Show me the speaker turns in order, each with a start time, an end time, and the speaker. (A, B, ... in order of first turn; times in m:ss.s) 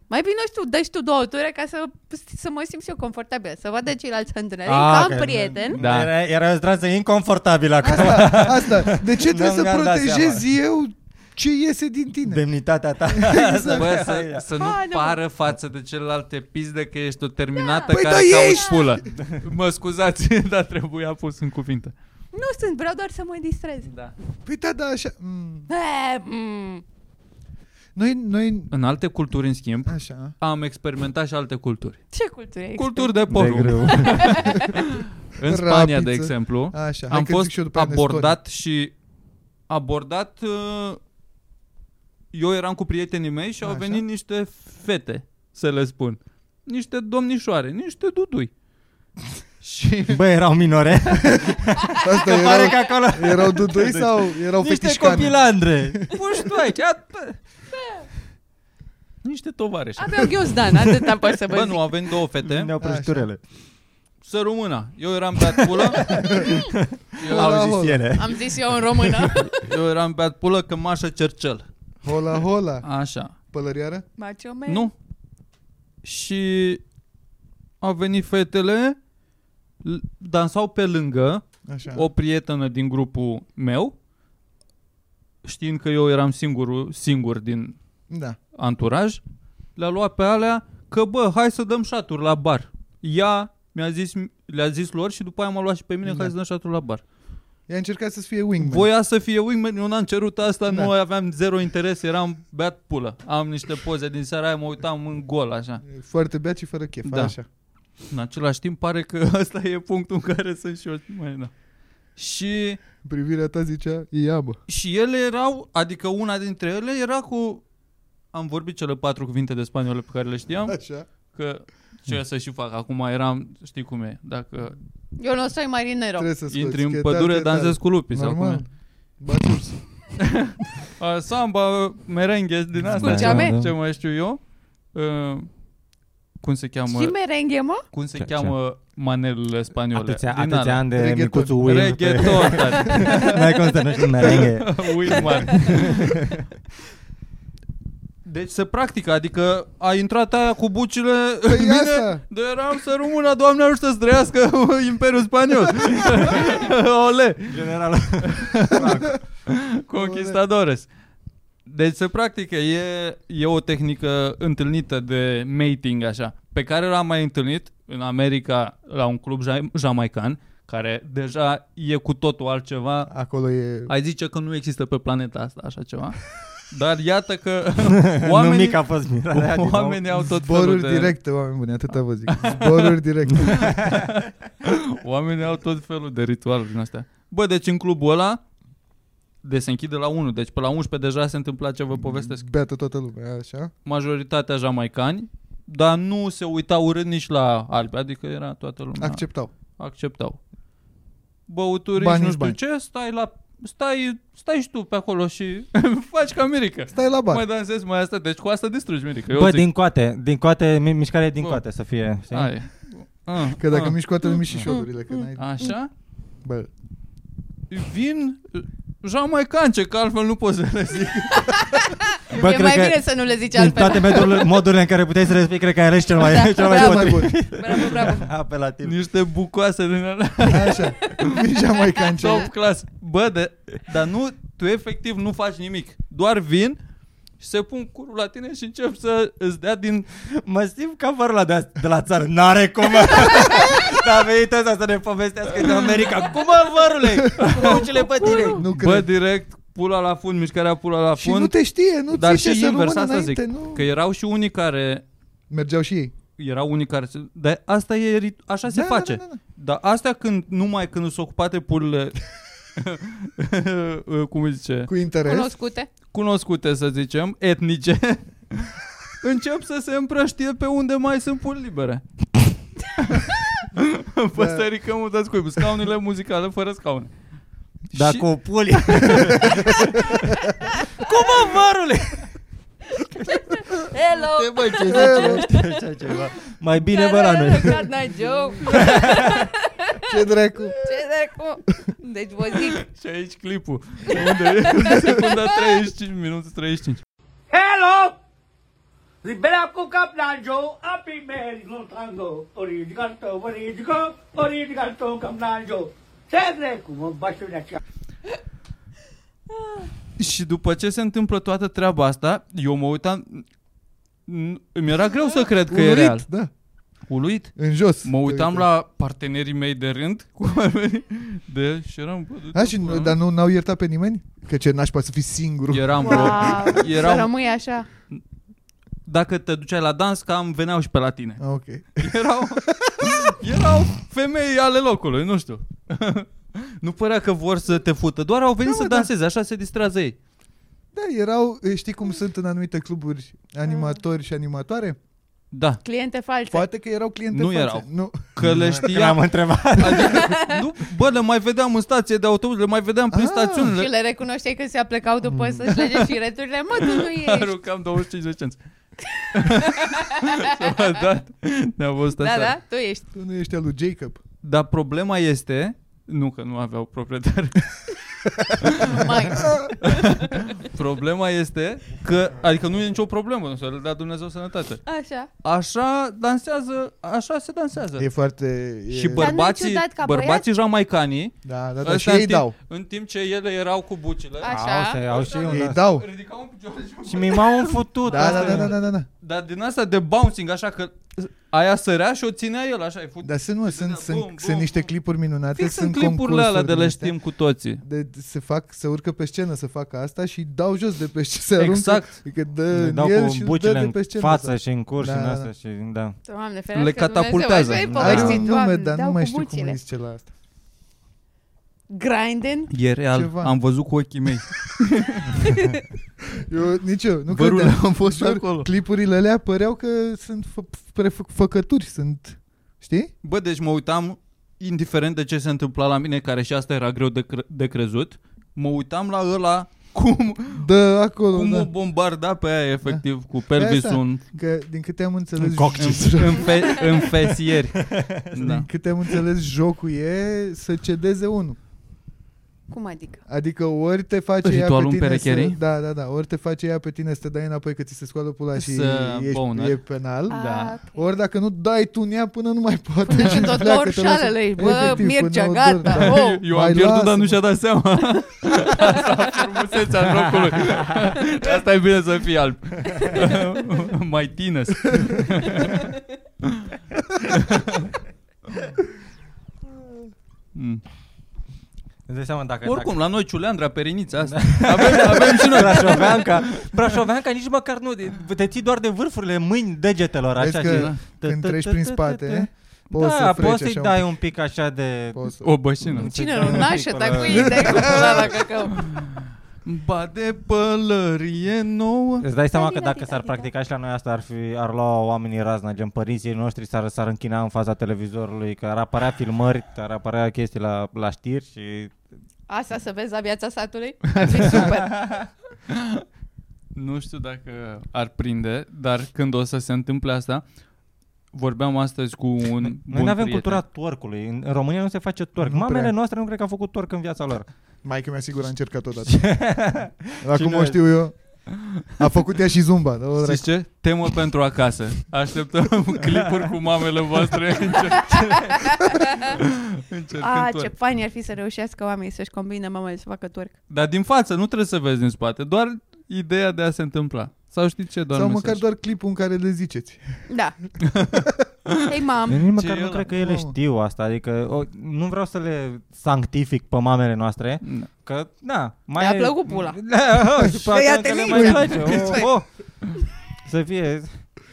0:00.1-0:05.8 A
0:04.6-0:10.4 B
0:05.8-0:06.1 C
0:07.8-0:12.4 D
0:12.2-0:14.4 B
0:13.1-0:13.8 D
0:13.7-0:21.9 C
0:14.6-0:15.2 A
0:17.6-0:18.9 A
0:17.9-0:19.0 D
0:22.3-0:23.9 A
0:23.8-0:24.1 C
0:24.4-0:25.7 D
0:25.7-0:26.8 A
0:27.9-0:28.7 D
0:28.7-0:32.0 C
0:29.9-0:30.3 D
0:32.1-0:33.2 A
0:32.8-0:38.9 C
0:33.3-0:34.5 B
0:33.8-0:34.8 A
0:35.4-0:38.4 D
0:39.7-0:41.0 C
0:42.3-0:48.5 C
0:43.6-0:44.0 D
0:49.6-0:50.2 C
0:50.1-0:56.5 B
0:51.3-0:56.0 D
0:56.1-0:57.4 C
0:59.2-1:00.4 C
1:00.0-1:01.8 A
1:01.5-1:02.7 C
1:02.4-1:03.4 B
1:02.8-1:03.3 D
1:04.2-1:06.4 C
1:05.6-1:09.3 B
1:06.1-1:06.5 D
1:07.2-1:07.9 C
1:07.3-1:08.0 D
1:08.1-1:09.7 A
1:09.5-1:11.6 C
1:12.0-1:12.9 D
1:12.8-1:13.3 C
1:13.5-1:14.1 D
1:14.2-1:14.9 A
1:14.6-1:14.9 C
1:16.0-1:16.8 C
1:17.8-1:19.0 C
1:19.8-1:23.9 C
1:21.7-1:22.1 D
1:25.4-1:27.8 C
1:28.1-1:28.4 D
1:28.6-1:29.2 C
1:29.8-1:37.0 C
1:36.0-1:36.3 D
1:37.7-1:38.9 D
1:38.6-1:45.8 C
1:45.8-1:47.4 D
1:47.0-1:47.4 C
1:48.1-1:51.5 C
1:52.2-1:52.8 C
1:53.0-1:54.6 D
1:54.7-1:57.6 C
1:58.3-2:00.8 C
2:00.7-2:01.1 D
2:01.3-2:04.8 C
2:05.2-2:06.3 A
2:06.2-2:08.6 D
2:06.5-2:08.6 C
2:09.2-2:09.8 D
2:10.2-2:14.4 C
2:12.8-2:13.7 B
2:13.0-2:13.6 A
2:14.9-2:15.5 C
2:16.4-2:17.1 C
2:16.9-2:17.8 A
2:17.9-2:20.8 C
2:18.2-2:18.6 B
2:19.9-2:26.4 B
2:20.9-2:21.9 D
2:21.6-2:23.6 C
2:24.2-2:26.3 C
2:25.4-2:25.8 A
2:28.2-2:37.7 C
2:31.5-2:32.2 D
2:37.5-2:39.2 B
2:38.2-2:40.9 C
2:40.0-2:40.4 D
2:41.6-2:53.1 C
2:53.1-2:53.9 D
2:53.9-3:01.1 C
2:57.9-3:00.0 B
3:00.1-3:03.8 D
3:02.3-3:08.4 C
3:03.4-3:04.1 B
3:09.4-3:12.4 C
3:12.0-3:13.7 D
3:13.9-3:19.2 C
3:19.0-3:19.5 D
3:19.8-3:20.4 C
3:21.5-3:29.7 C
3:22.0-3:22.6 D
3:26.9-3:27.4 D
3:29.3-3:32.5 B
3:32.3-3:34.0 C
3:33.6-3:35.5 D
3:34.7-3:35.7 A
3:35.4-3:35.9 C
3:37.7-3:41.6 C
3:41.4-3:44.6 A
3:42.3-3:49.0 B
3:46.2-3:48.3 A
3:46.6-3:47.3 D
3:48.8-3:51.3 C
3:50.4-3:52.5 D
3:52.2-3:56.8 C
3:57.4-4:00.1 C
4:00.2-4:08.6 B
4:07.2-4:11.6 C
4:08.2-4:08.5 A
4:08.5-4:09.1 D
4:11.2-4:13.9 D
4:12.1-4:15.0 C
4:15.5-4:16.1 D
4:16.4-4:22.2 C
4:18.7-4:19.4 D
4:22.8-4:24.9 C
4:24.9-4:25.5 D
4:25.2-4:25.9 A
4:26.1-4:32.0 C
4:33.0-4:37.1 C
4:34.3-4:34.7 D
4:37.9-4:40.3 C
4:37.9-4:40.2 B
4:41.0-4:42.3 C
4:41.0-4:42.0 B
4:43.2-4:45.7 A
4:44.6-4:47.9 B
4:44.8-4:45.4 D
4:46.8-4:50.1 A
4:48.7-4:49.5 B
4:50.1-4:50.8 D
4:50.8-4:52.8 A
4:52.7-4:57.0 C
4:54.1-4:55.6 A
4:57.5-4:58.1 E
4:59.2-5:07.8 E
5:10.2-5:13.4 C
5:14.3-5:16.3 C
5:15.7-5:16.5 D
5:17.1-5:23.2 C
5:17.6-5:18.7 D
5:22.5-5:26.8 D
5:25.7-5:27.3 C
5:26.0-5:27.9 A
5:29.0-5:31.4 C
5:31.4-5:33.3 D
5:32.0-5:40.2 C
5:38.6-5:39.1 D
5:40.9-5:45.0 D
5:45.5-5:45.8 C
5:45.8-5:46.6 A
5:46.5-5:48.8 D
5:47.3-5:53.9 C
5:48.4-5:50.3 B
5:50.0-5:50.6 A
5:53.1-5:53.7 D
5:53.7-5:57.6 A
5:55.3-5:55.6 D
5:55.7-5:56.0 C
5:56.8-5:58.6 C
5:59.1-6:00.7 A
5:59.3-6:02.6 C
6:02.2-6:03.0 A
6:03.1-6:04.2 D
6:04.4-6:08.0 C
6:08.5-6:14.8 C
6:08.8-6:10.5 A
6:09.4-6:09.7 D
6:14.8-6:15.3 A
6:15.4-6:18.1 C
6:18.0-6:19.3 D
6:18.9-6:34.9 C
6:19.1-6:20.4 A
6:21.4-6:22.5 D
6:24.4-6:25.0 A
6:24.4-6:25.8 B
6:25.4-6:26.0 D
6:27.0-6:28.7 B
6:28.1-6:29.1 D
6:33.2-6:37.1 D
6:35.6-6:37.8 C
6:37.8-6:45.5 D
6:41.6-6:42.2 C
6:42.7-6:46.2 B
6:46.3-6:49.8 A
6:46.7-6:48.3 C
6:47.8-6:48.5 B
6:48.0-6:50.3 D
6:51.9-6:52.7 A
6:52.7-6:55.3 C
6:53.1-6:53.5 D
6:55.3-6:55.8 A
6:56.4-7:03.1 D
6:57.3-6:58.7 C
7:03.2-7:10.7 C
7:10.6-7:11.7 D
7:11.3-7:14.3 C
7:13.5-7:17.0 D
7:15.4-7:17.2 B
7:15.8-7:18.7 C
7:17.8-7:18.4 B
7:18.4-7:21.6 D
7:22.7-7:23.2 A
7:23.3-7:37.4 D
7:24.4-7:25.6 C
7:28.6-7:30.8 C
7:30.3-7:31.0 A
7:33.0-7:36.4 A
7:33.2-7:33.5 C
7:34.7-7:35.0 C
7:35.9-7:47.9 C
7:43.0-7:43.4 A
7:44.9-7:45.2 D
7:50.6-7:50.8 C
7:52.1-7:52.9 B
7:52.6-7:56.8 C
7:54.2-8:08.3 B
8:00.4-8:04.0 D
8:00.6-8:01.0 C
8:05.1-8:05.5 D
8:05.4-8:06.7 C
8:06.0-8:08.9 A
8:07.3-8:08.2 D
8:07.7-8:12.3 C
8:12.2-8:22.0 B
8:12.5-8:13.5 A
8:22.5-8:25.1 A
8:24.5-8:25.3 B
8:25.7-8:26.0 C
8:26.7-8:30.4 C
8:31.3-8:33.6 C
8:32.6-8:37.5 B
8:35.4-8:35.9 D
8:37.8-8:39.4 D
8:39.1-8:40.8 B
8:40.2-8:41.4 D
8:42.0-8:43.4 D
8:43.2-8:50.7 C
8:46.1-8:46.4 B
8:48.1-8:49.4 A
8:50.2-8:53.5 A
8:53.7-8:58.6 C
8:58.1-9:00.2 D
9:00.3-9:00.6 A
9:00.8-9:01.8 C
9:01.9-9:02.5 A
9:02.3-9:12.5 B
9:02.6-9:03.1 C
9:03.1-9:03.6 D
9:07.6-9:07.9 C
9:09.0-9:09.8 A
9:10.5-9:12.3 A
9:11.3-9:12.3 D
9:13.4-9:14.2 B